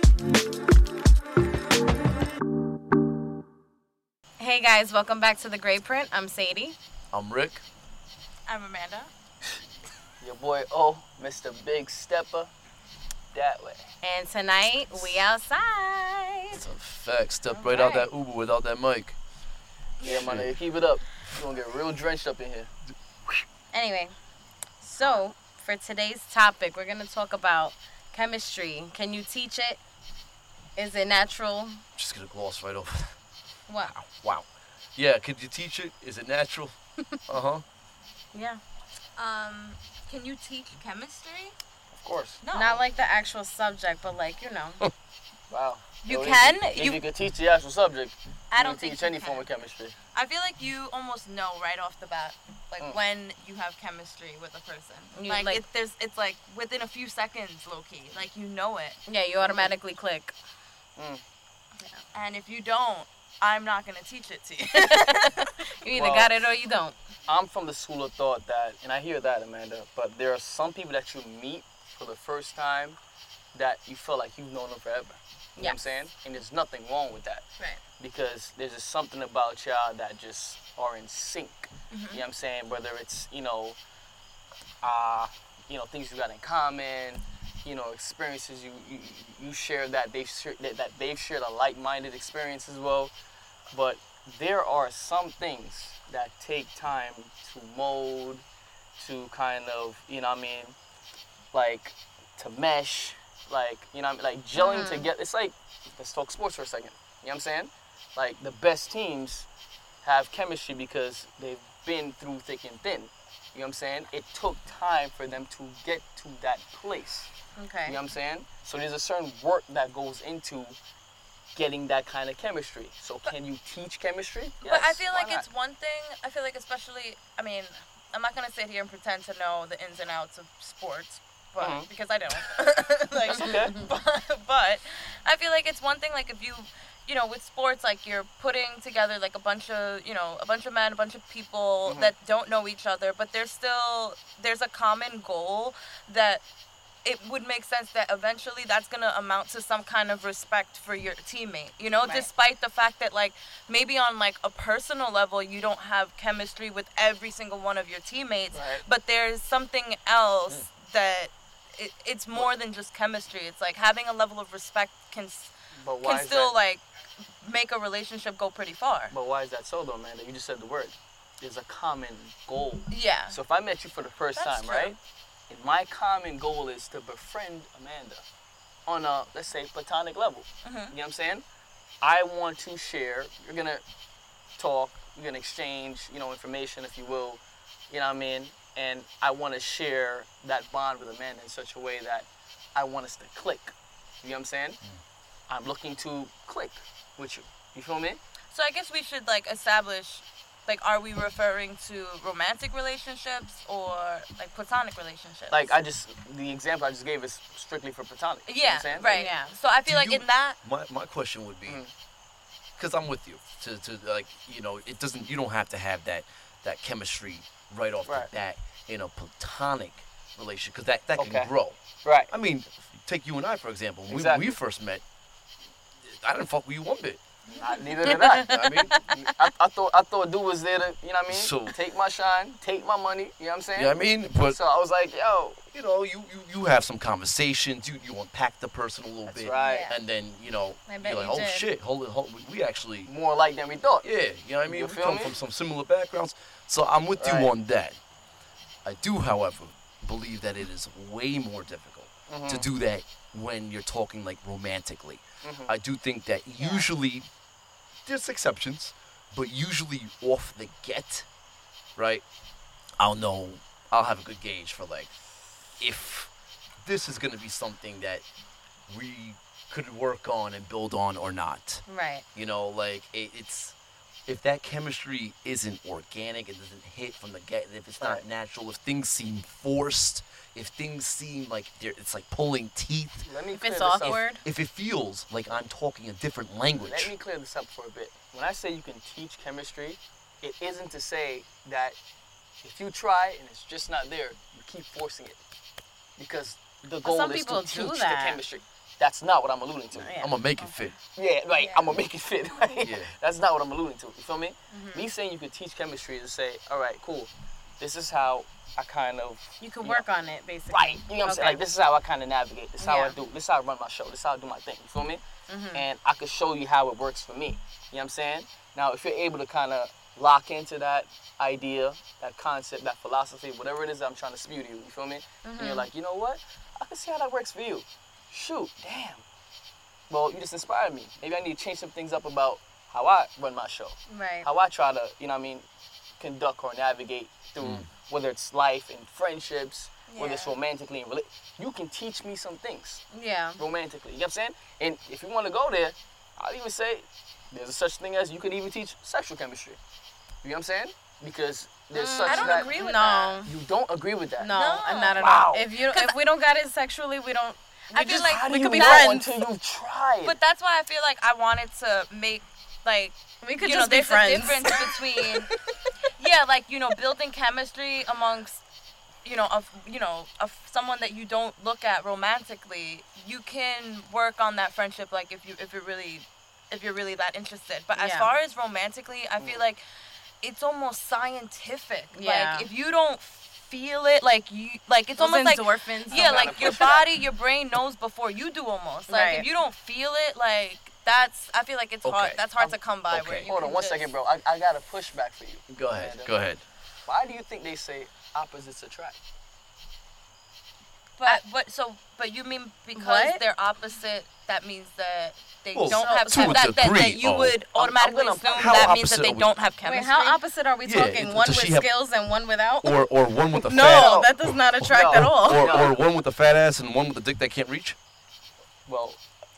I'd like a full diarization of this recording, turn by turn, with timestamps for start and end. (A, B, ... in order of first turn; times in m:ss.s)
0:04.4-0:06.8 A
0:07.1-0:07.6 B
0:08.5-0:09.1 C
0:10.2-0:12.5 D
0:13.3-0:13.8 D
0:14.0-0:16.6 A
0:16.5-0:19.2 B
0:17.5-0:18.1 A
0:20.0-0:20.4 C
0:20.0-0:22.7 D
0:20.2-0:20.5 B
0:23.7-0:24.1 A
0:24.8-0:29.8 A
0:30.8-0:31.8 A
0:32.0-0:33.1 B
0:33.7-0:33.9 A
0:33.9-0:36.8 B
0:37.3-0:37.6 B
0:38.3-0:38.6 A
0:39.2-0:41.5 C
0:41.9-0:42.4 D
0:42.4-0:42.8 C
0:42.5-0:44.8 A
0:45.5-0:49.9 D
0:46.0-0:47.0 C
0:48.5-0:49.5 C
0:50.1-0:59.0 C
0:55.1-0:55.6 A
0:59.1-1:00.3 A
0:59.4-0:59.7 D
1:01.0-1:01.2 D
1:02.1-1:05.4 C
1:04.7-1:06.9 A
1:05.9-1:06.3 D
1:07.3-1:13.0 D
1:13.5-1:17.4 D
1:18.0-1:23.8 D
1:21.9-1:22.2 C
1:24.8-1:33.1 D
1:33.7-1:38.4 D
1:39.0-1:40.8 D
1:41.5-1:49.5 D
1:44.5-1:45.1 A
1:50.0-1:57.3 D
1:57.6-1:58.0 A
1:57.8-2:00.8 D
2:01.5-2:05.4 D
2:04.6-2:26.4 C
2:11.6-2:11.9 D
2:13.3-2:13.8 D
2:13.3-2:13.9 A
2:21.9-2:22.1 D
2:27.0-2:46.8 C
2:32.0-2:32.3 A
2:38.5-2:38.8 D
2:45.8-2:46.5 D
2:47.4-2:49.1 C
2:49.1-2:55.0 D
2:52.9-2:53.4 C
2:54.3-2:55.0 C
2:55.5-2:58.2 D
2:58.8-3:01.4 D
3:00.6-3:00.9 C
3:02.0-3:03.8 D
3:04.6-3:14.8 D
3:15.5-3:18.2 D
3:18.5-3:25.7 C
3:25.5-3:29.2 D
3:28.5-3:30.6 C
3:29.1-3:29.5 A
3:29.8-3:31.8 B
3:32.8-3:41.8 B
3:41.2-3:41.5 D
3:42.0-3:42.3 D
3:42.3-3:45.0 B
3:44.1-3:44.5 D
3:46.0-3:47.2 B
3:47.5-3:47.8 C
3:47.5-3:48.6 D
3:48.0-3:49.3 A
3:48.4-3:49.3 B
3:49.3-3:55.6 D
3:51.3-3:51.7 B
3:53.7-3:54.6 B
3:55.7-4:03.1 B
3:59.3-3:59.8 D
3:59.5-4:00.0 A
4:00.9-4:01.7 A
4:03.0-4:04.1 D
4:04.0-4:08.0 B
4:04.6-4:05.4 D
4:07.2-4:07.5 D
4:08.8-4:17.3 B
4:12.3-4:12.7 D
4:15.4-4:15.7 D
4:18.0-4:21.3 B
4:22.0-4:22.2 B
4:23.0-4:25.1 B
4:25.8-4:26.3 B
4:26.8-4:28.2 B
4:28.9-4:31.8 B
4:31.9-4:32.2 A
4:32.3-4:33.7 B
4:34.3-4:43.3 B
4:38.0-4:38.2 D
4:43.2-4:44.2 D
4:43.6-4:44.4 A
4:44.0-4:47.1 B
4:46.8-4:52.0 D
4:52.6-4:55.4 D
4:56.2-5:00.1 D
4:57.0-4:58.4 A
4:59.9-5:00.8 A
5:00.1-5:01.0 B
5:01.2-5:10.0 D
5:01.6-5:01.9 C
5:02.8-5:03.1 B
5:04.7-5:05.0 A
5:09.6-5:11.6 A
5:10.7-5:15.2 D
5:12.8-5:13.2 A
5:15.5-5:15.8 A
5:15.7-5:29.2 D
5:25.4-5:25.9 A
5:30.1-5:35.6 D
5:34.1-5:34.5 A
5:36.2-5:43.0 D
5:37.6-5:37.9 B
5:40.1-5:40.6 C
5:43.1-5:43.6 A
5:43.6-5:49.8 D
5:50.4-5:52.7 D
5:51.9-5:53.5 A
5:52.2-5:53.4 C
5:53.4-5:54.5 D
5:54.4-5:59.4 A
5:54.4-5:56.2 C
5:55.2-5:55.7 D
5:57.9-5:59.2 C
5:58.0-6:00.4 D
6:00.2-6:05.5 C
6:03.4-6:05.5 A
6:06.2-6:08.6 C
6:09.2-6:19.8 C
6:18.0-6:18.4 A
6:20.4-6:34.1 C
6:22.1-6:22.7 A
6:25.2-6:26.7 A
6:26.1-6:27.1 D
6:29.1-6:29.5 A
6:32.0-6:32.4 B
6:33.1-6:33.5 B
6:33.4-6:36.3 D
6:35.7-6:36.6 B
6:37.0-6:39.2 D
6:41.2-6:50.4 C
6:43.0-6:43.4 A
6:45.7-6:47.6 B
6:45.9-6:46.6 A
6:47.7-6:48.9 D
6:48.5-6:49.5 B
6:49.8-6:53.0 A
6:50.8-6:51.9 B
6:52.8-6:58.0 B
6:53.5-6:55.7 A
6:53.7-6:54.3 D
6:54.9-6:56.0 D
6:58.9-6:59.2 D